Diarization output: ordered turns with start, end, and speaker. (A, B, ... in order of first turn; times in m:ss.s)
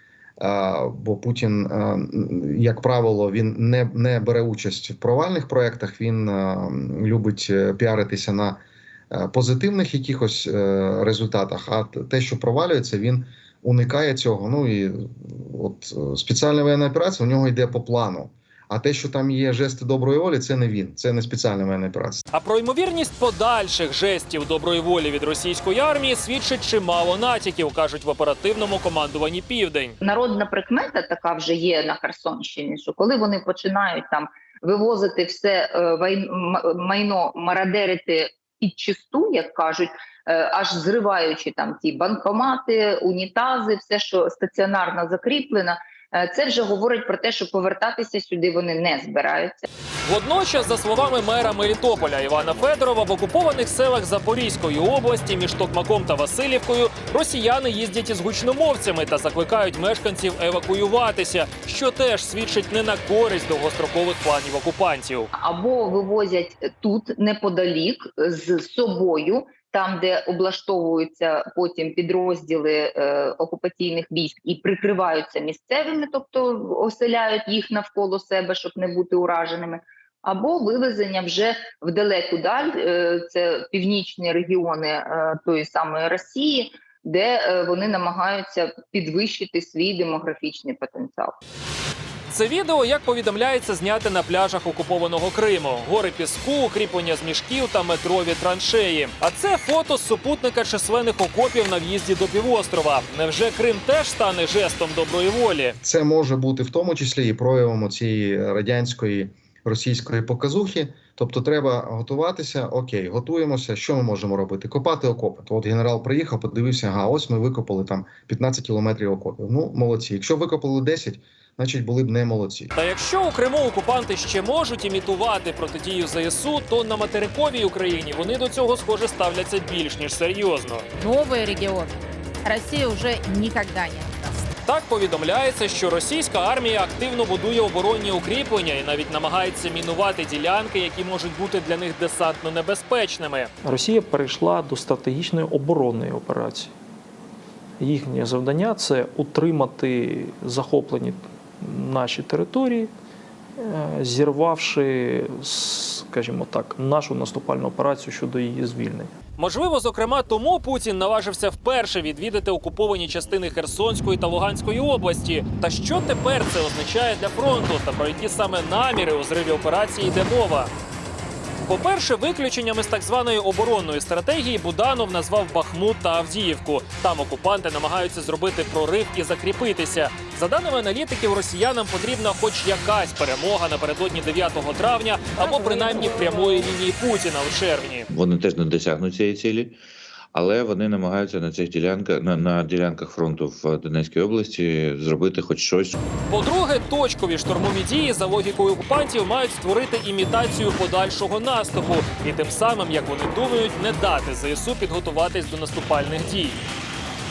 0:00.4-0:22.2 A
0:22.3-0:30.0 B
0:30.0-0:49.7 C
0:50.1-1:05.3 B
1:05.4-1:31.4 C
1:32.3-1:45.8 B
1:45.8-2:02.7 A
2:02.8-2:10.9 B
2:11.0-2:14.5 D
2:14.7-2:23.5 B
2:23.6-2:26.7 E
2:27.8-2:32.9 E
2:33.6-2:39.1 E
2:39.4-2:50.7 B
2:51.7-3:08.1 B
3:08.1-3:09.8 F
3:10.3-3:16.0 F
3:16.3-3:26.6 B